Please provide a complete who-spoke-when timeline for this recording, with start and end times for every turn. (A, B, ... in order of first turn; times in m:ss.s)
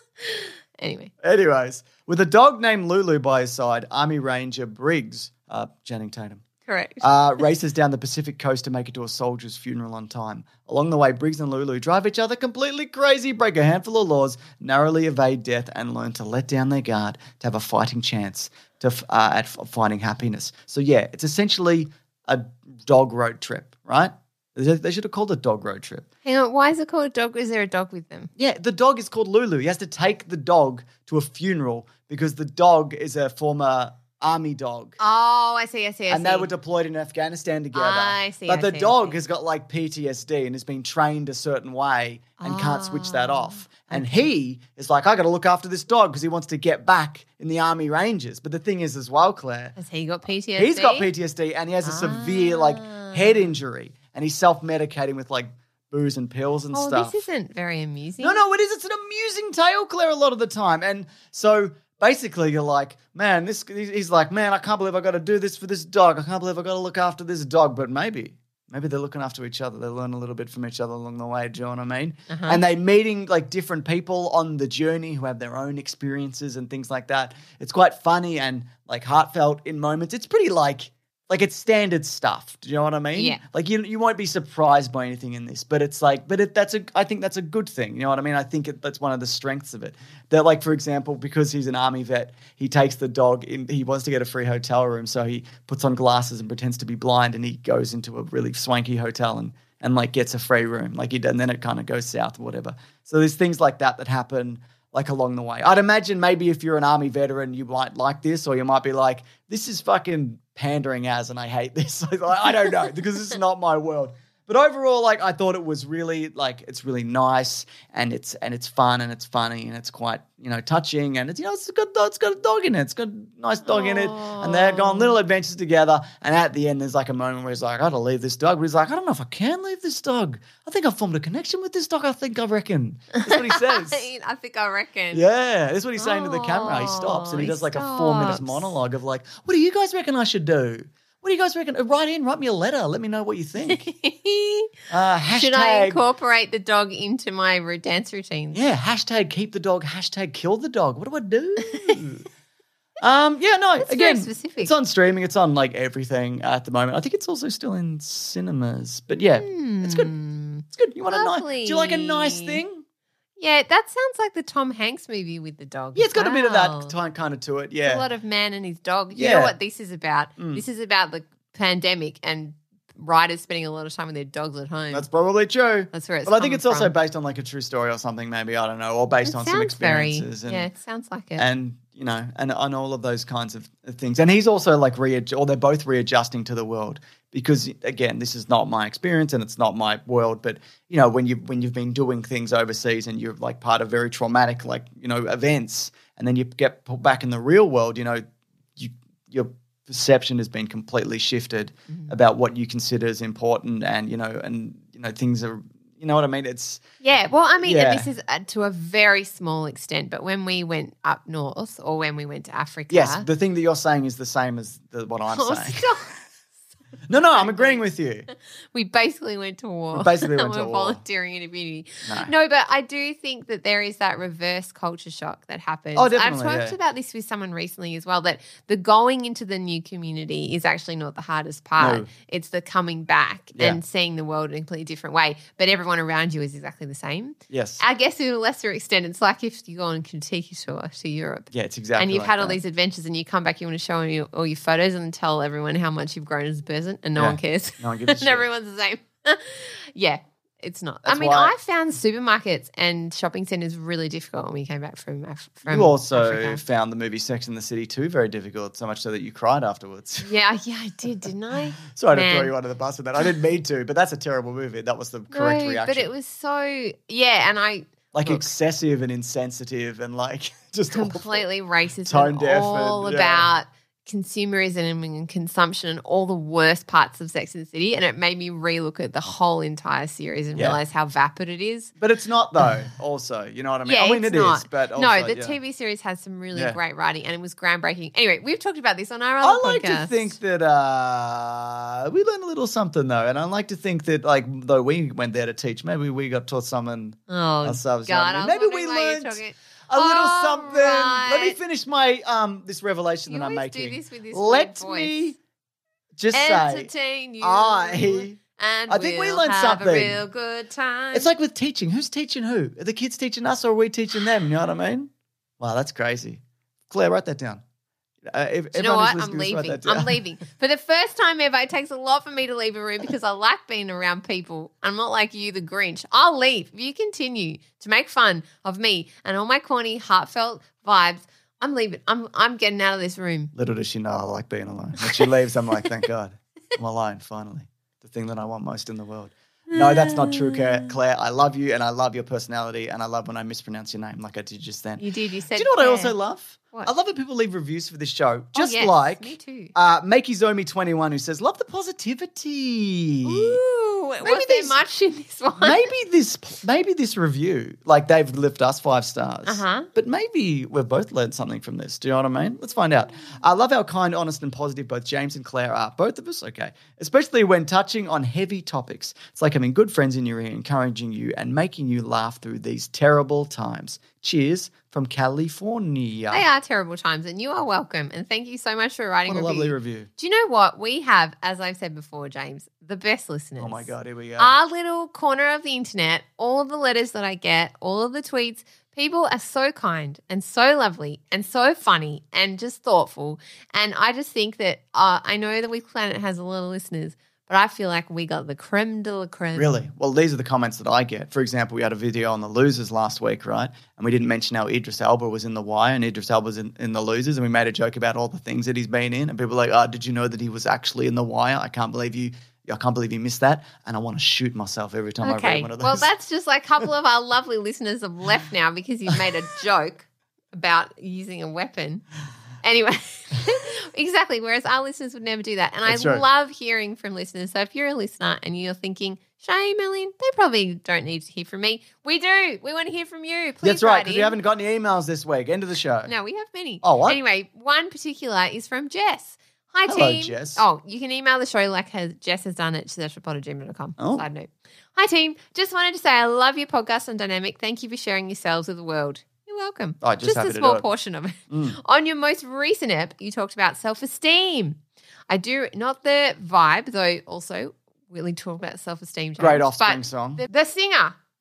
0:00.2-0:01.1 A
0:01.2-0:06.4 B
0:06.7-0:07.1 A
0:07.0-0:26.0 B
0:26.2-0:28.3 A
0:28.4-0:35.0 B
0:35.0-0:36.5 A
0:36.1-0:49.7 B
0:37.7-0:39.2 A
0:42.4-0:44.3 A
0:49.8-0:51.1 A
0:50.6-0:57.2 B
0:51.8-0:53.5 A
0:56.7-0:58.4 A
0:58.2-2:14.1 B
1:12.3-1:12.6 A
1:23.1-1:23.4 A
2:03.6-2:05.2 A
2:13.2-2:15.2 A
2:15.1-2:23.8 B
2:16.0-2:18.7 A
2:23.7-2:24.7 A
2:24.9-2:26.0 B
2:25.3-2:28.6 A
2:28.5-2:32.2 B
2:33.0-2:40.1 B
2:33.8-2:34.7 A
2:39.4-2:42.6 A
2:40.6-2:42.8 B
2:43.4-2:46.9 A
2:45.9-2:48.0 B
2:47.8-2:55.1 A
2:49.1-2:49.6 B
2:50.4-2:50.6 B
2:54.9-3:00.7 B
2:55.9-2:56.9 A
2:59.2-3:01.4 A
3:01.4-3:26.8 B
3:27.0-3:33.2 A
3:27.6-3:28.1 B
3:32.9-3:36.0 B
3:35.3-3:36.1 A
3:37.1-3:38.3 B
3:37.3-3:37.8 A
3:38.7-4:16.6 A
3:39.9-3:41.0 B
3:42.0-3:42.3 B
3:45.9-3:46.8 B
3:51.8-3:52.1 B
3:53.5-3:53.8 B
3:57.5-3:57.8 B
4:01.5-4:02.6 B
4:07.2-4:08.4 B
4:11.0-4:11.5 B
4:15.7-4:20.3 B
4:20.2-4:22.5 A
4:21.9-4:26.1 B
4:25.3-4:28.5 A
4:28.1-4:31.4 B
4:30.9-4:41.9 A
4:32.0-4:33.5 B
4:40.5-4:40.8 B
4:42.0-4:45.6 B
4:43.8-4:50.4 A
4:46.5-4:46.8 B
4:49.4-5:05.4 B
4:57.3-5:01.6 A
5:03.3-5:05.3 A
5:06.1-5:10.2 B
5:06.3-5:11.3 A
5:11.1-5:17.6 B
5:18.2-5:20.2 B
5:18.7-5:33.5 A
5:33.5-5:53.6 B
5:39.7-5:40.9 A
5:45.0-5:46.2 A
5:48.6-5:49.7 A
5:53.2-5:55.9 A
5:54.2-5:54.8 B
5:55.6-6:16.4 B
5:59.4-5:59.9 A
6:16.3-6:39.7 A
6:19.3-6:20.1 B
6:23.6-6:24.5 B
6:39.6-6:56.1 B
6:55.2-7:02.0 A
7:02.6-7:14.4 A
7:05.8-7:06.2 B
7:13.6-7:16.1 B
7:16.0-7:41.2 A
7:16.8-7:17.2 B
7:19.8-7:20.6 B
7:24.0-7:24.2 B
7:30.0-7:30.8 B
7:31.5-7:31.8 B
7:39.4-7:40.4 B